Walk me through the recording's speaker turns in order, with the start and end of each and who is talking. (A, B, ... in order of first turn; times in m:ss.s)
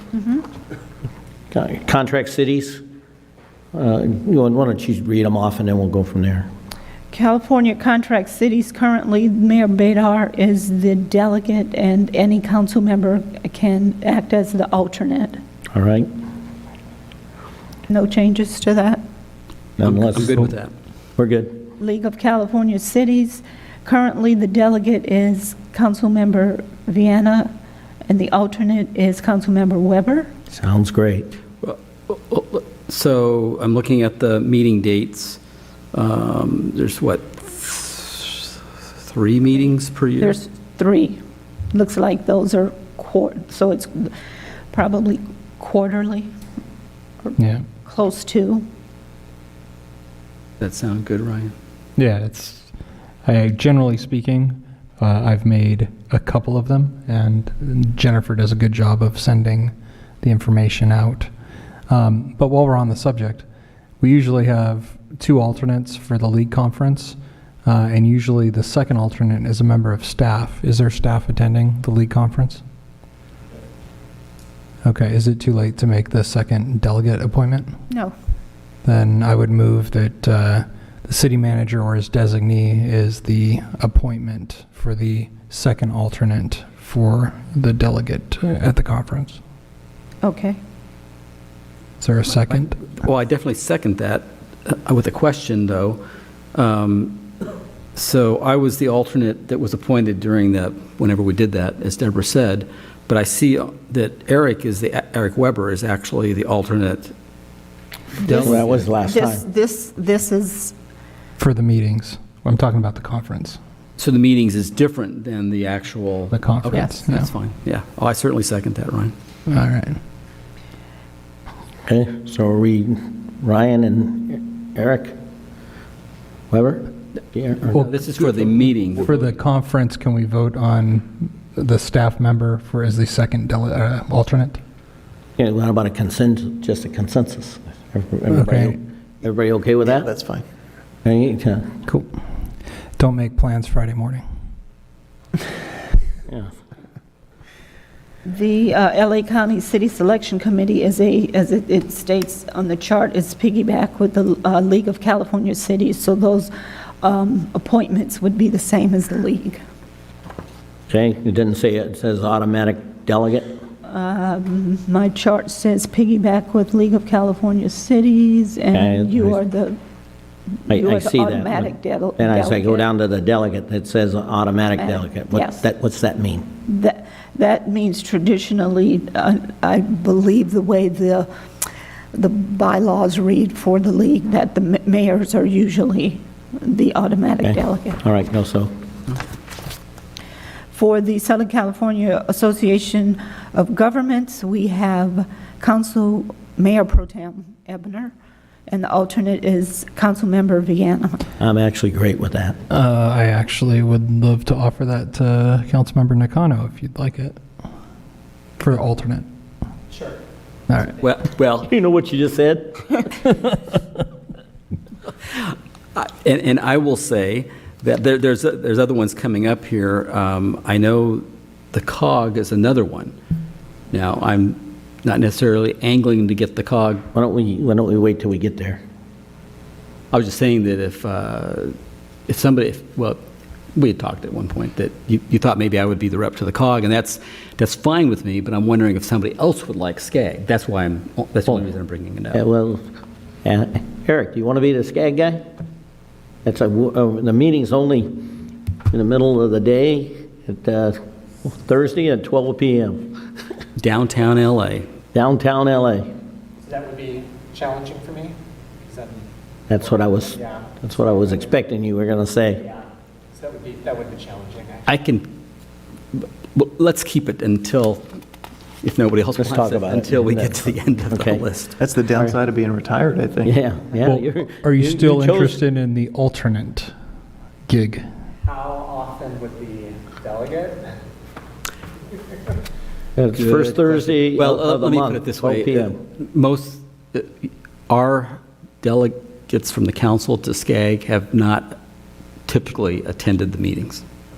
0:00.2-0:00.4 A
0:01.5-0:02.8 B
0:03.7-0:06.5 B
0:07.1-0:15.4 A
0:15.8-0:16.1 B
0:17.9-0:19.0 A
0:19.8-0:20.5 B
0:19.8-0:20.7 C
0:21.2-0:21.6 B
0:21.8-0:27.5 A
0:28.1-0:30.3 A
0:30.5-0:31.3 B
0:31.6-0:35.4 C
0:35.9-0:40.4 C
0:40.2-0:41.2 A
0:41.7-0:44.1 A
0:44.7-0:46.3 A
0:47.4-0:47.6 D
0:47.8-0:48.7 A
0:50.6-0:51.5 C
0:52.0-0:52.7 D
0:53.2-1:01.3 D
1:01.9-1:03.4 D
1:04.0-1:12.6 D
1:14.8-1:17.7 D
1:18.8-1:29.4 D
1:30.2-1:30.6 A
1:32.0-1:32.9 D
1:32.9-1:36.0 C
1:36.5-1:37.3 C
1:38.0-1:47.1 C
1:48.2-1:48.9 C
1:48.3-1:49.4 B
1:49.0-1:50.7 A
1:51.4-1:53.6 D
1:54.0-1:59.1 C
1:56.3-1:57.3 D
1:59.5-2:00.0 D
2:01.9-2:05.2 B
2:06.5-2:07.9 B
2:07.7-2:09.2 C
2:09.0-2:14.6 D
2:15.4-2:20.1 B
2:18.3-2:18.8 D
2:20.0-2:20.4 E
2:21.0-2:21.8 B
2:23.0-2:24.2 D
2:28.3-2:36.5 A
2:37.0-2:39.6 A
2:40.9-2:43.5 B
2:43.8-2:49.8 A
2:48.7-2:49.4 B
2:50.7-2:52.9 A
2:50.7-2:56.5 B
2:54.8-2:55.6 A
2:56.7-3:01.3 A
3:02.1-3:08.0 A
3:07.4-3:08.7 B
3:10.7-3:18.1 A
3:18.7-3:21.2 A
3:21.4-3:22.6 B
3:22.7-3:27.4 D
3:28.6-3:29.3 D
3:31.0-3:31.7 C
3:31.7-3:33.1 B
3:35.4-3:43.1 C
3:43.9-3:47.0 C
3:47.1-3:48.8 B
3:50.1-3:51.8 C
3:52.3-3:53.2 C
3:53.8-4:02.4 C
4:02.3-4:02.8 B
4:03.4-4:05.4 B
4:06.4-4:08.3 B
4:08.9-4:13.2 B
4:13.8-4:14.9 C
4:15.1-4:16.1 B
4:16.7-4:19.2 F
4:19.7-4:22.6 B
4:20.0-4:20.7 F
4:23.4-4:24.9 F
4:24.9-4:25.3 C
4:26.1-4:28.1 C
4:28.8-4:31.8 C
4:29.4-4:31.4 B
4:31.8-4:33.6 E
4:33.4-4:35.6 B
4:34.0-4:36.9 D
4:37.7-4:38.0 D
4:38.4-4:40.8 F
4:43.2-4:46.0 B
4:43.4-4:51.8 C
4:52.5-4:54.0 C